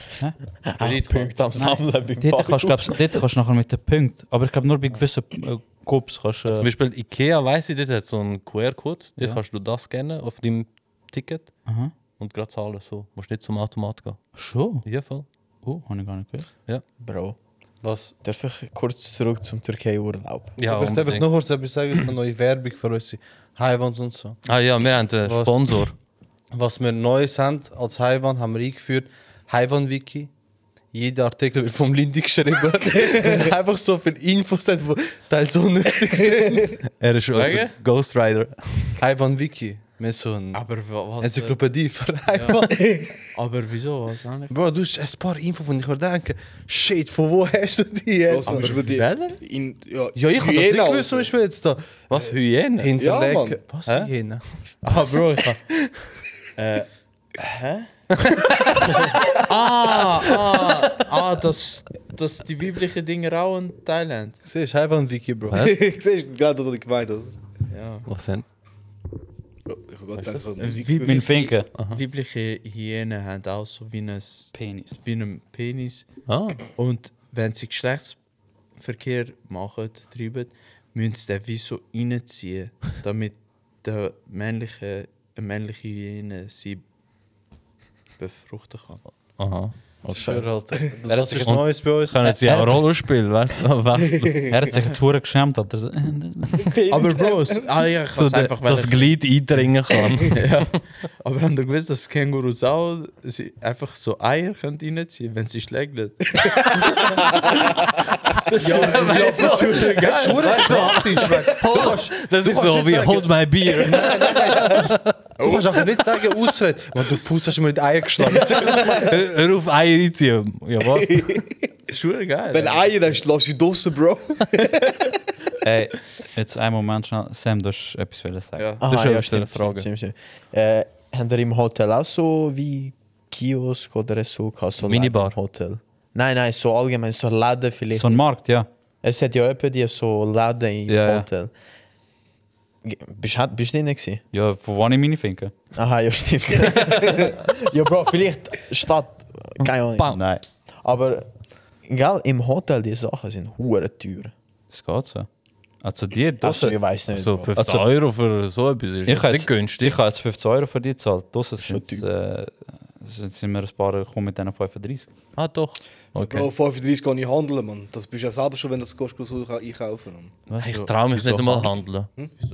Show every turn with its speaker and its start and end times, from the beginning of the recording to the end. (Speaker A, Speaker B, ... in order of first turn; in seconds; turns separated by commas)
Speaker A: 0.6-3.0, Speaker B: 0.8-1.5, Speaker C: 1.6-6.7, Speaker B: 6.5-11.6, Speaker C: 11.7-11.9, Speaker B: 12.2-15.2, Speaker C: 14.3-14.8, Speaker C: 15.6-16.5, Speaker A: 17.0-17.4, Speaker D: 17.8-18.1, Speaker A: 18.2-20.5, Speaker B: 20.6-21.3, Speaker D: 20.7-24.4, Speaker B: 24.4-25.9, Speaker D: 25.2-25.9, Speaker D: 26.5-30.3, Speaker D: 30.9-36.8, Speaker E: 36.2-36.7, Speaker B: 37.0-39.0, Speaker F: 37.3-37.7, Speaker D: 39.0-43.0, Speaker F: 40.5-41.6, Speaker F: 42.3-42.7, Speaker E: 42.7-43.1, Speaker F: 43.3-44.5, Speaker D: 44.5-48.8, Speaker E: 48.3-51.3, Speaker F: 48.4-49.4, Speaker D: 50.1-54.8, Speaker B: 52.1-52.9, Speaker E: 53.0-53.6, Speaker B: 53.8-54.1, Speaker F: 54.8-55.6, Speaker F: 56.6-57.9, Speaker F: 59.5-64.4, Speaker D: 64.4-65.6, Speaker B: 65.5-65.8, Speaker E: 65.5-67.3, Speaker F: 67.7-68.1, Speaker B: 68.0-68.5, Speaker E: 69.7-71.3, Speaker B: 70.2-70.5, Speaker F: 70.6-76.1, Speaker C: 70.9-71.7, Speaker B: 71.7-72.0, Speaker C: 74.5-75.0, Speaker B: 76.3-76.6, Speaker F: 76.7-78.2, Speaker F: 78.8-86.8, Speaker F: 88.2-89.0, Speaker B: 89.4-90.5, Speaker D: 90.1-92.3, Speaker C: 91.1-91.6, Speaker B: 91.4-94.8, Speaker C: 92.2-92.9, Speaker C: 94.5-96.7, Speaker E: 96.6-97.7, Speaker F: 96.9-99.3, Speaker B: 98.1-100.6, Speaker F: 100.3-111.5, Speaker E: 106.4-107.7, Speaker B: 108.6-115.1, Speaker D: 108.6-119.2, Speaker E: 113.9-114.8, Speaker F: 115.4-115.8, Speaker B: 118.4-121.4, Speaker E: 118.6-119.0, Speaker E: 120.9-121.6, Speaker F: 121.9-123.2, Speaker E: 122.5-125.1, Speaker C: 125.6-128.7, Speaker F: 128.6-128.8, Speaker A: 128.8-135.6, Speaker B: 128.8-129.8, Speaker B: 134.8-135.8, Speaker A: 136.1-138.2, Speaker C: 137.9-138.7, Speaker A: 139.0-141.5, Speaker C: 140.9-141.3, Speaker A: 142.8-144.2, Speaker C: 144.3-145.5, Speaker A: 145.7-150.2, Speaker C: 150.1-150.4, Speaker A: 150.8-151.3, Speaker A: 151.8-154.3, Speaker C: 154.7-155.3, Speaker C: 155.8-156.8, Speaker A: 156.4-157.5, Speaker B: 157.1-160.0, Speaker C: 157.6-157.8, Speaker C: 159.1-165.1, Speaker A: 161.6-162.0, Speaker B: 165.3-166.5, Speaker E: 166.2-170.4, Speaker C: 170.5-170.8, Speaker B: 170.6-172.1, Speaker F: 170.7-171.7